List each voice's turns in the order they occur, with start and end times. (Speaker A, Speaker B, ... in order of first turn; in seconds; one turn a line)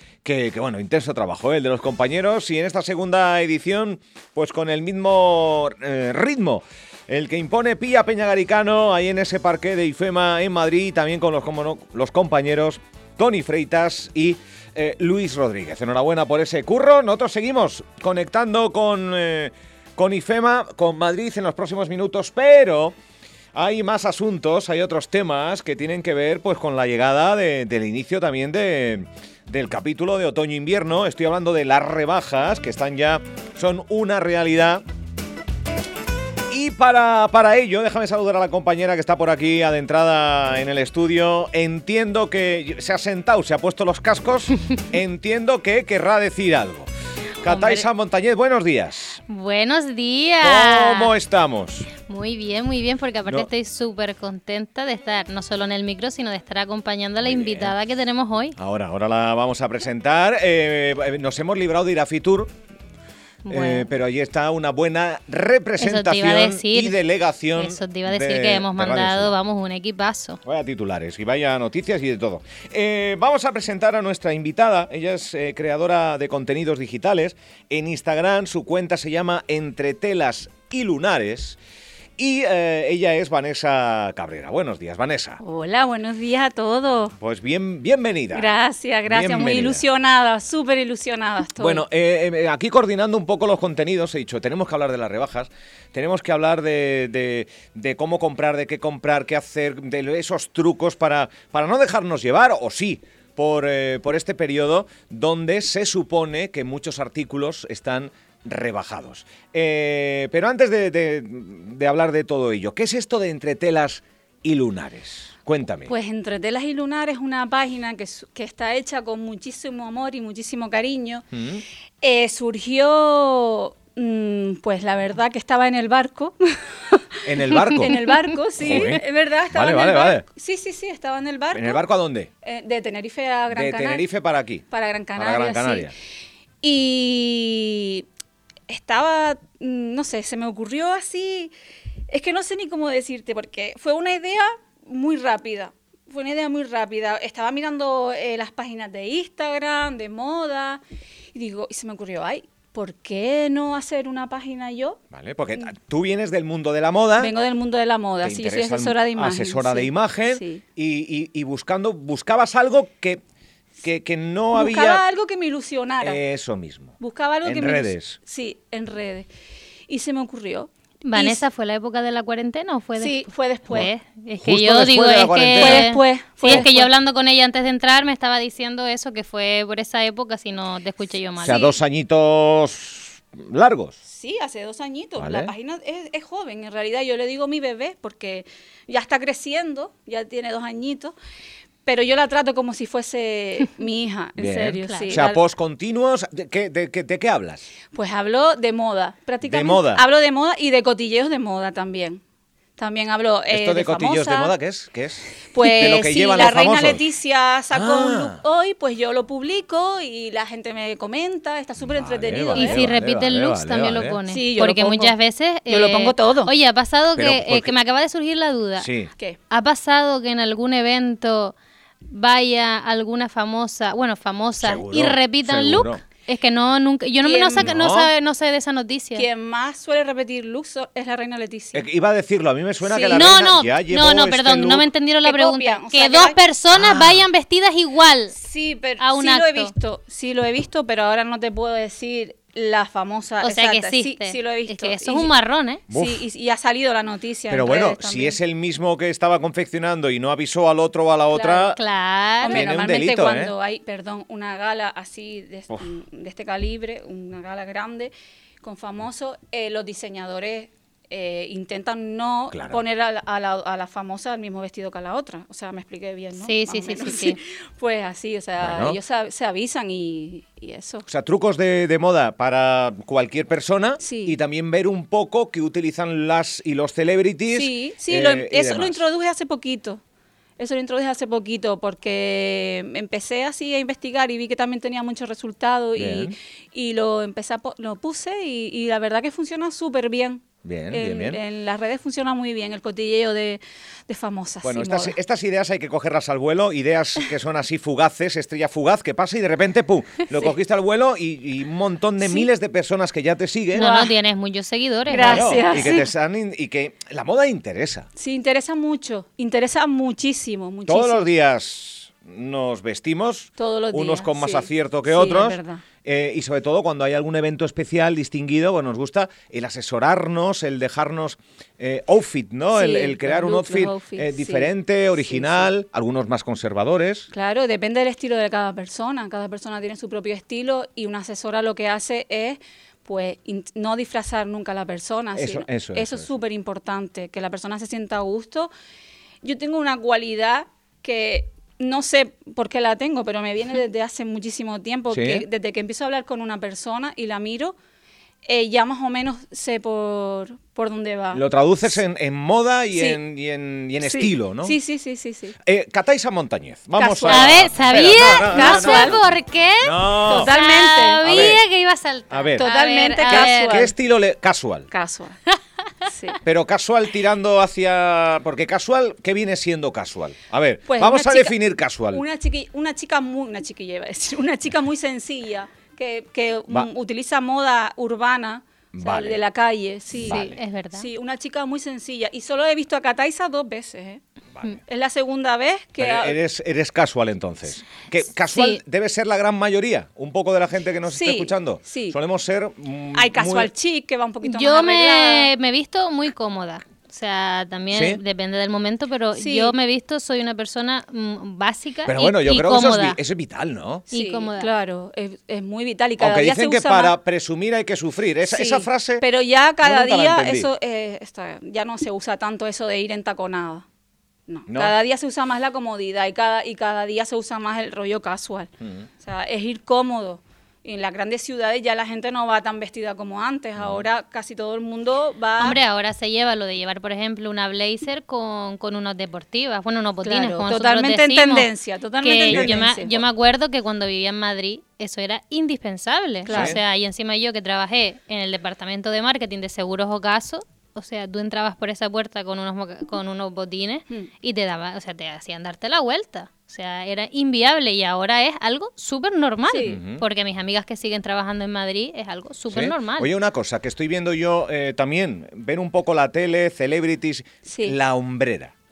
Speaker A: 0.2-22.9
Speaker A: 23.5-34.8
Speaker A: 36.5-46.9
Speaker A: 47.4-49.2
Speaker B: 47.5-47.9
Speaker B: 49.3-51.1
Speaker A: 50.4-51.9
Speaker B: 52.0-58.6
Speaker A: 57.2-57.7
Speaker A: 58.6-62.5
Speaker B: 63.5-63.9
Speaker A: 63.5-69.3
Speaker B: 65.8-67.0
Speaker B: 67.6-70.4
Speaker A: 70.4-81.6
Speaker A: 82.2-85.4
Speaker C: 85.4-87.1
Speaker A: 87.2-88.5
Speaker C: 88.3-91.8
Speaker A: 89.1-89.8
Speaker A: 91.6-115.9
Speaker C: 115.9-121.3
Speaker A: 121.3-121.6
Speaker C: 122.0-131.8
Speaker A: 127.2-128.0
Speaker A: 128.6-130.2
Speaker A: 131.5-132.3
Speaker C: 132.4-134.0
Speaker A: 133.5-135.9
Speaker C: 134.7-135.9
Speaker C: 136.6-138.1
Speaker C: 138.7-141.5
Speaker C: 142.1-150.8
Speaker C: 151.3-155.0
Speaker A: 155.1-157.3
Speaker C: 157.2-160.6
Speaker A: 158.2-163.2
Speaker A: 163.8-165.0
Speaker C: 164.5-166.2
Speaker A: 166.0-168.2
Speaker C: 167.0-169.3
Speaker C: 169.9-171.4
Speaker B: 171.0-181.7
Speaker C: 173.0-173.9
Speaker A: 174.4-175.9
Speaker C: 175.6-176.9
Speaker A: 181.4-184.0
Speaker C: 181.4-181.7
Speaker C: 184.0-191.1
Speaker A: 185.2-185.5
Speaker C: 191.8-195.4
Speaker A: 194.4-197.6
Speaker B: 194.8-195.2
Speaker C: 197.9-202.2
Speaker A: 199.4-200.0
Speaker C: 202.8-204.5
Speaker A: 203.5-207.0
Speaker C: 205.5-212.9
Speaker A: 207.7-208.4
Speaker A: 211.8-214.2
Speaker B: 212.6-218.9
Speaker C: 214.3-215.1
Speaker C: 215.7-216.5
Speaker A: 217.2-217.7
Speaker A: 218.8-219.1
Speaker B: 219.5-221.5
Speaker B: 222.1-229.3
Speaker A: 224.6-226.0
Speaker C: 227.2-227.7
Speaker A: 227.6-228.1
Speaker C: 229.1-231.8
Speaker A: 231.7-234.9
Speaker C: 232.8-233.2
Speaker B: 233.1-238.3
Speaker C: 235.2-236.4
Speaker A: 236.7-237.2
Speaker C: 238.3-245.3
Speaker B: 239.0-239.7
Speaker B: 243.4-245.8
Speaker A: 245.9-246.2
Speaker C: 245.9-248.4
Speaker A: 247.5-251.8
Speaker C: 251.3-251.7
Speaker B: 251.6-252.6
Speaker C: 252.4-258.1
Speaker A: 252.4-253.5
Speaker C: 258.6-271.1
Speaker A: 262.5-262.8
Speaker B: 266.4-267.4
Speaker A: 268.6-269.0
Speaker A: 271.1-279.0
Speaker C: 274.0-274.4
Speaker C: 277.5-280.0
Speaker C: 280.6-295.2
Speaker A: 286.0-286.3
Speaker A: 290.6-291.4
Speaker A: 294.6-303.9
Speaker C: 303.7-304.1
Speaker B: 303.7-305.9
Speaker C: 305.1-306.1
Speaker A: 305.1-308.1
Speaker C: 308.1-311.3
Speaker A: 310.9-327.3
Speaker C: 313.6-315.8
Speaker C: 322.7-325.7
Speaker C: 327.3-338.7
Speaker A: 335.3-336.3
Speaker C: 339.4-347.8
Speaker A: 345.1-345.4
Speaker C: 348.4-352.0
Speaker A: 351.3-354.8
Speaker C: 352.9-353.2
Speaker C: 354.0-355.6
Speaker A: 355.6-360.5
Speaker C: 356.9-357.7
Speaker B: 357.3-363.8
Speaker C: 358.5-359.2
Speaker C: 360.2-361.2
Speaker A: 361.2-361.6
Speaker A: 362.3-362.7
Speaker C: 362.6-363.9
Speaker A: 363.2-364.9
Speaker C: 364.9-365.4
Speaker C: 366.1-366.4
Speaker A: 366.4-372.2
Speaker C: 370.9-371.6
Speaker C: 372.1-384.2
Speaker A: 378.9-379.4
Speaker A: 380.2-380.6
Speaker B: 380.3-381.1
Speaker A: 384.6-384.8
Speaker C: 384.9-386.4
Speaker A: 386.0-393.7
Speaker B: 388.5-388.8
Speaker C: 391.1-392.2
Speaker C: 393.1-395.5
Speaker B: 394.4-403.2
Speaker A: 397.9-398.2
Speaker C: 399.4-399.7
Speaker A: 402.1-404.1
Speaker B: 404.1-404.7
Speaker C: 404.1-407.1
Speaker A: 406.2-409.2
Speaker C: 408.4-413.8
Speaker A: 409.8-410.7
Speaker C: 414.5-425.8
Speaker A: 414.7-414.9
Speaker A: 418.8-419.1
Speaker A: 423.8-424.0
Speaker B: 425.6-453.3
Speaker C: 430.2-433.2
Speaker A: 432.5-432.9
Speaker C: 436.4-436.8
Speaker A: 436.5-436.8
Speaker C: 449.7-450.0
Speaker A: 449.8-450.2
Speaker A: 452.7-458.7
Speaker C: 457.6-457.9